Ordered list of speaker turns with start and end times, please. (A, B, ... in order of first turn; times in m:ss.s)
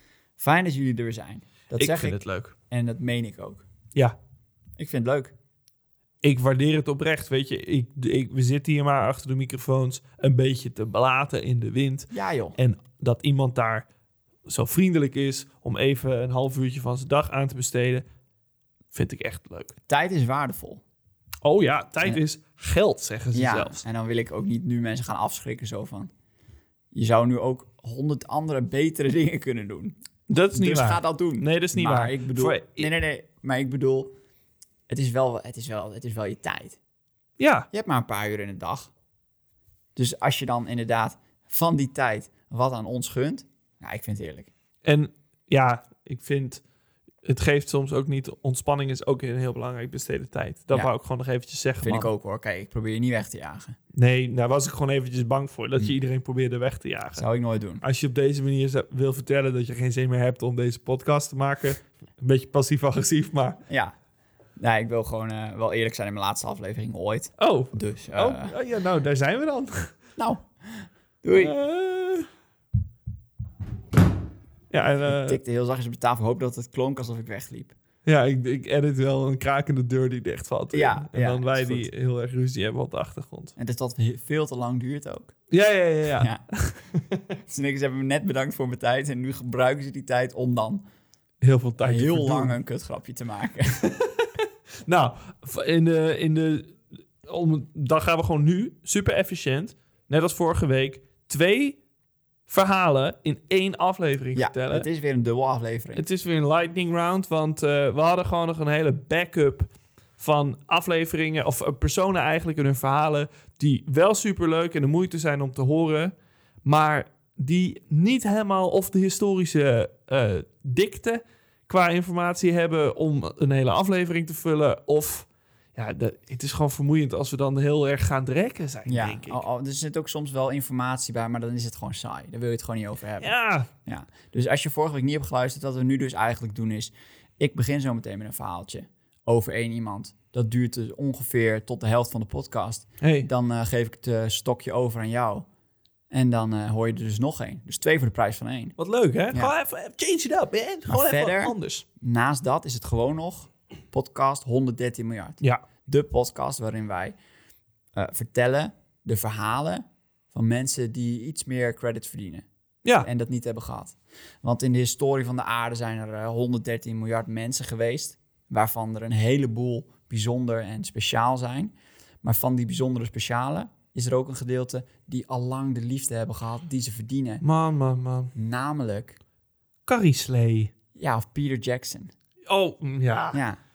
0:00.4-0:03.6 A
0:01.8-0:02.5 B
0:04.8-0:05.3 A
0:06.2-0:13.8 B
0:12.1-0:12.6 A
0:14.4-0:18.0 B
0:18.9-0:19.7 B
0:19.9-0:20.8 A
0:21.4-0:23.8 B
0:23.3-0:26.1 A
0:26.9-0:30.0 A
0:30.3-0:32.9 B
0:30.5-0:34.1 A
0:34.9-0:36.8 A
0:37.4-0:37.7 B
0:37.7-0:38.9 A
0:40.0-0:44.5 A
0:44.8-0:46.6 B
0:47.2-0:52.1 B
0:51.8-0:53.8 A
0:53.9-0:57.2 B
0:57.1-0:57.8 A
0:57.8-1:03.6 B
1:03.7-1:03.9 A
1:04.6-1:08.5 A
1:07.4-1:10.0 B
1:10.2-1:11.6 A
1:11.3-1:12.3 B
1:14.7-1:15.4 B
1:15.1-1:17.8 A
1:18.0-1:23.5 B
1:20.7-1:21.9 A
1:23.6-1:25.3 A
1:25.5-1:27.2 B
1:26.2-1:26.4 A
1:27.5-1:30.8 A
1:31.4-1:32.5 B
1:31.8-1:33.9 A
1:33.8-1:41.8 B
1:42.5-1:44.9 B
1:44.3-1:46.0 A
1:45.9-2:09.4 B
2:08.9-2:25.4 A
2:13.2-2:13.7 B
2:23.0-2:23.3 B
2:26.1-2:28.8 A
2:28.8-2:31.8 B
2:30.9-2:37.1 A
2:37.9-2:42.4 A
2:43.0-2:57.4 A
2:57.4-2:58.3 B
2:58.3-2:59.2 A
2:59.8-3:00.7 B
3:00.9-3:02.1 A
3:02.4-3:03.4 B
3:03.3-3:03.6 A